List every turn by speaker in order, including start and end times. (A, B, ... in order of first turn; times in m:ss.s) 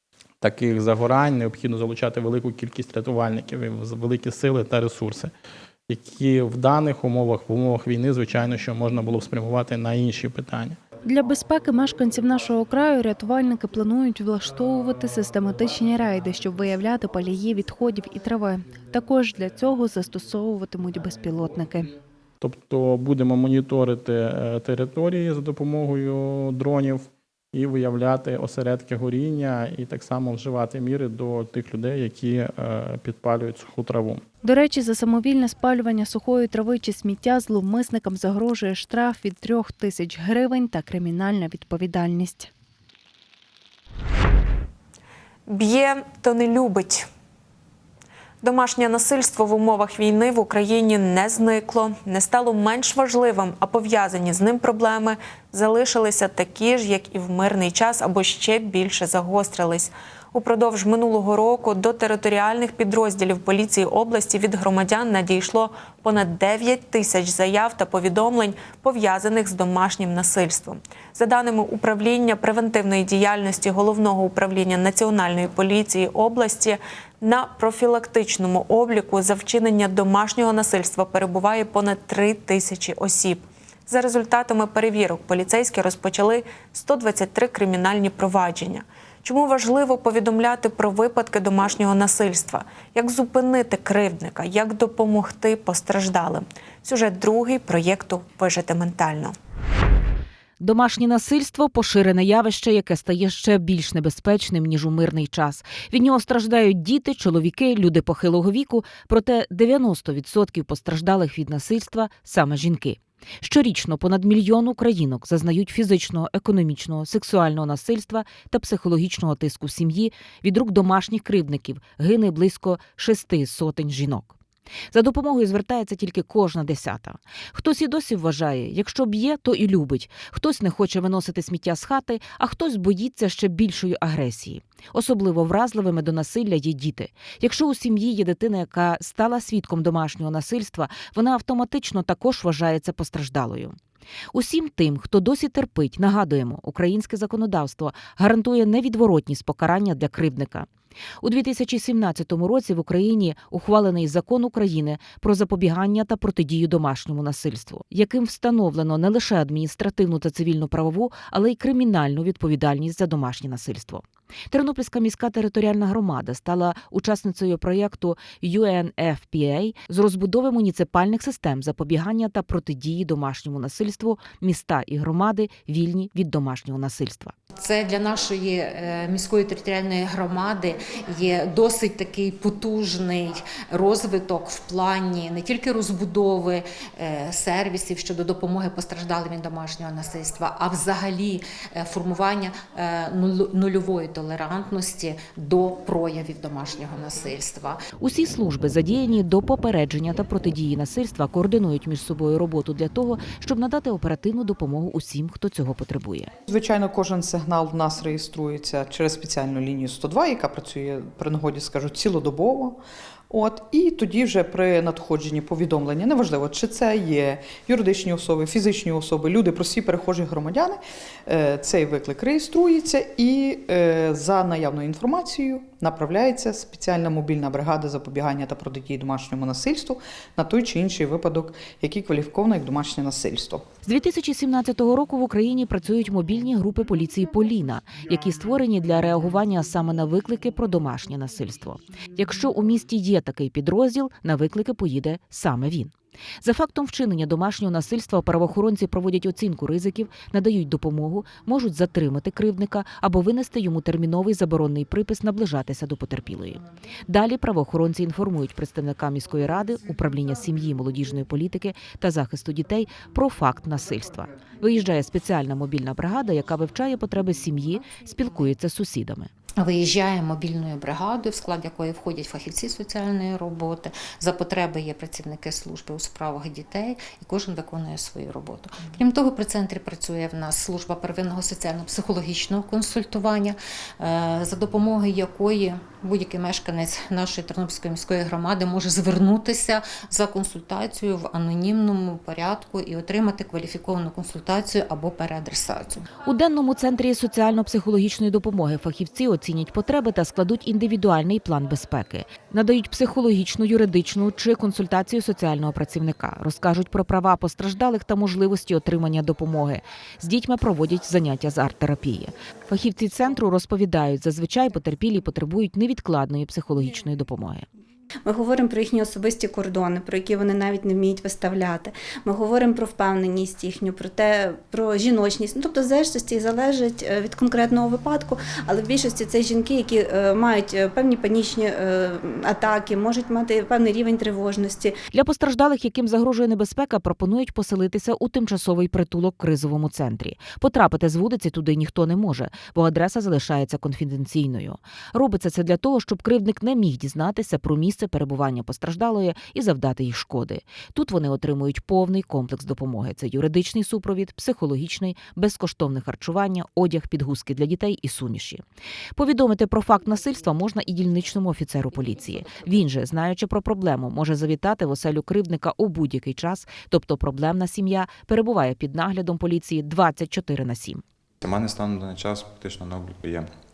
0:00.4-0:05.3 A
0:05.9-0:10.8 A
0:11.0-0:21.9 B
0:22.4-0:34.2 A
0:34.4-0:42.5 B
0:45.5-0:47.1 C
0:48.4-1:39.4 C
1:40.6-2:04.4 D
2:04.9-2:23.8 D
2:24.3-2:30.7 D
2:31.2-2:57.4 D
2:57.6-3:17.8 E
3:18.0-3:26.3 D
3:26.5-3:32.8 F
3:33.3-3:40.8 F
3:41.3-3:53.6 F
3:53.8-4:29.3 D
4:29.6-4:56.0 E
4:56.2-5:17.7 D
5:18.3-5:35.0 G
5:35.1-5:58.6 D
5:59.2-6:11.0 D
6:11.4-6:13.5 H